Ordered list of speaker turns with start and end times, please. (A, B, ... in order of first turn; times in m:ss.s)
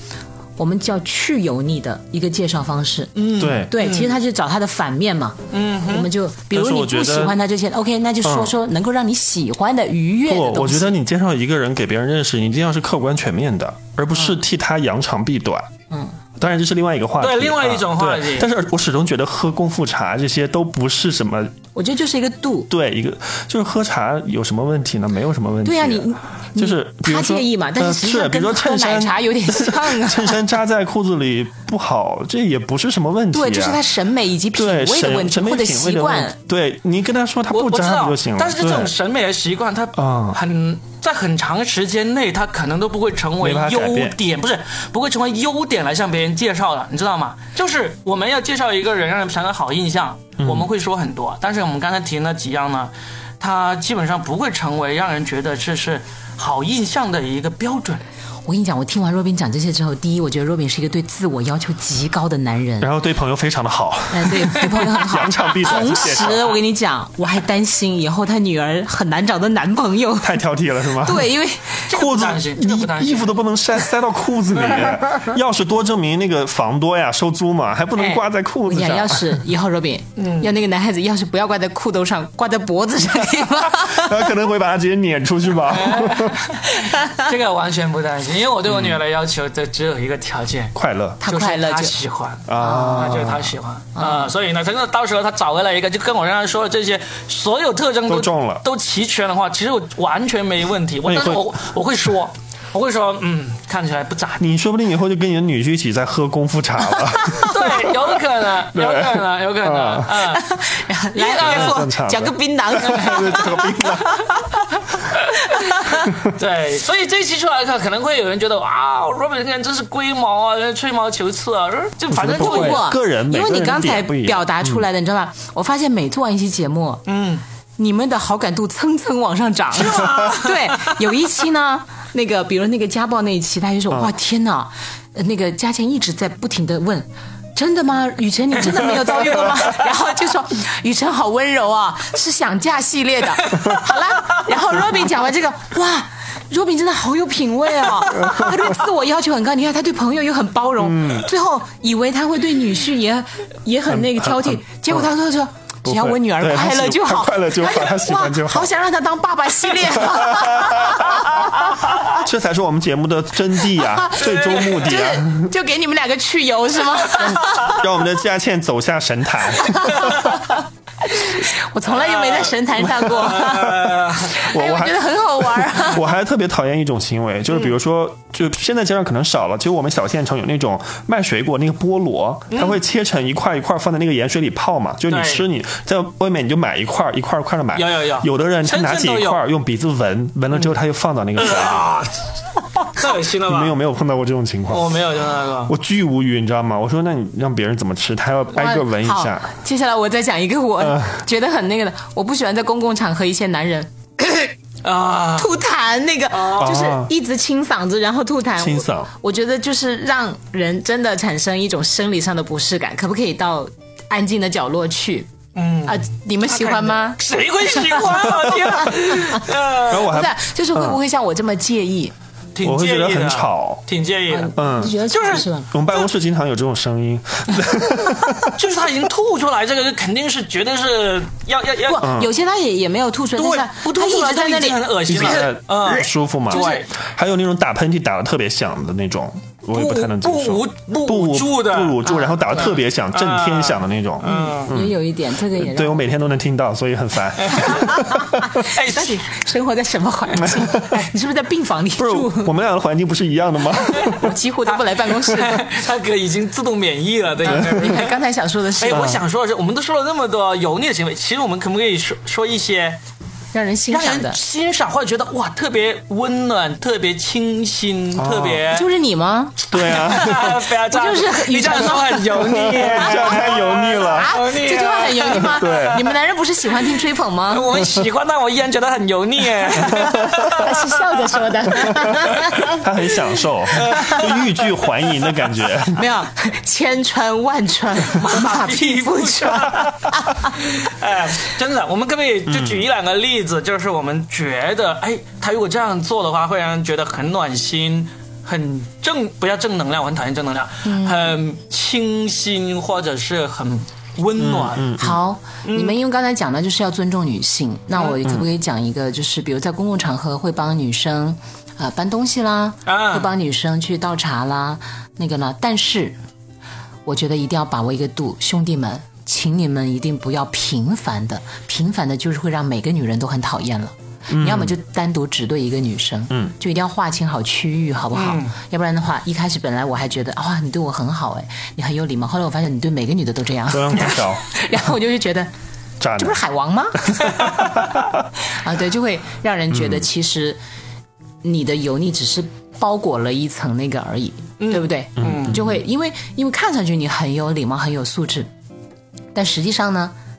0:00.6-0:10.9 A
0:03.1-0:04.2 B
0:03.4-0:03.7 C
0:05.5-0:06.1 B
0:06.5-0:07.4 C
0:08.2-0:08.5 C
0:10.3-0:15.7 C
0:16.4-0:21.6 C
0:17.2-0:18.5 B
0:21.7-0:22.7 A
0:22.7-0:33.8 C
0:25.6-0:30.4 A
0:33.3-0:36.3 A
0:34.5-0:38.9 C
0:37.5-0:58.0 B
0:39.9-0:40.4 C
0:43.4-0:44.2 C
0:50.4-0:50.7 C
0:58.4-1:02.9 A
1:02.8-1:06.5 C
1:04.1-1:11.9 A
1:06.1-1:06.4 B
1:10.2-1:11.3 C
1:11.9-1:13.4 B
1:11.9-1:19.4 C
1:18.0-1:24.3 A
1:20.2-1:20.5 B
1:23.6-1:26.4 C
1:25.7-1:44.4 B
1:30.7-1:31.2 C
1:31.2-1:31.9 A
1:32.5-1:33.5 C
1:32.6-1:33.2 A
1:34.0-1:34.3 A
1:38.1-1:38.6 C
1:41.0-1:41.4 C
1:44.4-1:48.0 C
1:47.4-1:50.4 B
1:48.7-1:50.1 C
1:50.2-1:54.5 A
1:51.1-1:51.9 B
1:51.4-1:54.3 C
1:52.8-1:53.4 B
1:55.1-2:02.8 B
1:55.5-1:56.0 A
2:02.1-2:04.8 C
2:02.3-2:07.0 A
2:07.1-2:07.4 B
2:07.8-2:42.0 A
2:09.7-2:11.0 B
2:18.7-2:19.9 B
2:28.1-2:28.7 C
2:30.8-2:31.3 C
2:33.9-2:35.1 C
2:35.8-2:38.7 C
2:39.9-2:45.5 C
2:43.7-2:47.8 A
2:44.2-2:44.8 B
2:47.2-2:50.4 C
2:49.6-2:56.1 A
2:49.9-2:50.3 B
2:51.9-2:54.4 B
2:53.4-2:53.7 C
2:54.4-3:11.9 C
3:02.5-3:02.8 B
3:05.1-3:05.4 B
3:07.7-3:09.4 B
3:11.4-3:12.2 B
3:12.9-3:13.7 B
3:13.4-3:15.0 C
3:14.7-3:15.7 B
3:15.7-3:19.5 C
3:18.5-3:24.5 A
3:20.8-3:21.2 C
3:24.8-3:25.5 B
3:25.4-3:35.3 A
3:26.3-3:26.8 B
3:26.6-3:27.1 C
3:28.6-3:29.1 C
3:35.6-3:40.1 B
3:35.8-3:37.2 A
3:37.7-3:42.1 A
3:39.9-3:41.0 C
3:42.5-3:45.5 B
3:42.6-3:43.8 C
3:44.3-3:45.7 A
3:44.6-3:45.0 C
3:45.7-3:48.6 C
3:48.5-3:52.1 B
3:51.9-3:55.4 A
3:52.0-3:52.3 C
3:53.4-3:56.9 B
3:55.1-4:05.0 C
3:56.5-3:56.8 A
3:59.7-4:04.7 B
4:02.0-4:02.7 A
4:04.3-4:06.0 A
4:05.5-4:08.6 C
4:07.4-4:07.9 B
4:07.6-4:12.5 A
4:08.6-4:09.2 B
4:10.4-4:11.0 C
4:12.0-4:14.3 C
4:14.0-4:15.6 A
4:14.7-4:18.1 B
4:17.5-4:19.2 A
4:17.5-4:17.9 C
4:18.8-4:23.0 B
4:18.9-4:19.2 C
4:23.5-4:24.4 A
4:23.9-4:28.9 B
4:28.2-4:28.6 C
4:28.7-4:37.7 A
4:29.7-4:30.6 C
4:29.7-4:36.0 B
4:32.5-4:34.3 C
4:35.3-4:36.0 C
4:37.5-4:41.0 B
4:40.0-4:40.7 C
4:40.5-4:42.8 A
4:41.8-4:46.0 C
4:41.8-4:42.4 B
4:43.7-4:45.1 B
4:45.9-4:50.6 A
4:48.1-5:04.9 B
4:52.5-4:52.8 C
5:00.8-5:01.3 A
5:04.4-5:05.2 C
5:05.0-5:16.2 A
5:05.6-5:06.0 B
5:12.8-5:13.3 B
5:17.0-5:35.5 A
5:24.3-5:24.7 C
5:28.1-5:28.5 B
5:33.7-5:34.4 C
5:36.0-5:36.4 C
5:36.2-5:40.6 A
5:37.3-5:38.2 C
5:39.7-5:40.0 C
5:41.4-5:48.5 A
5:44.6-5:45.6 B
5:45.2-5:45.8 C
5:49.3-5:50.1 A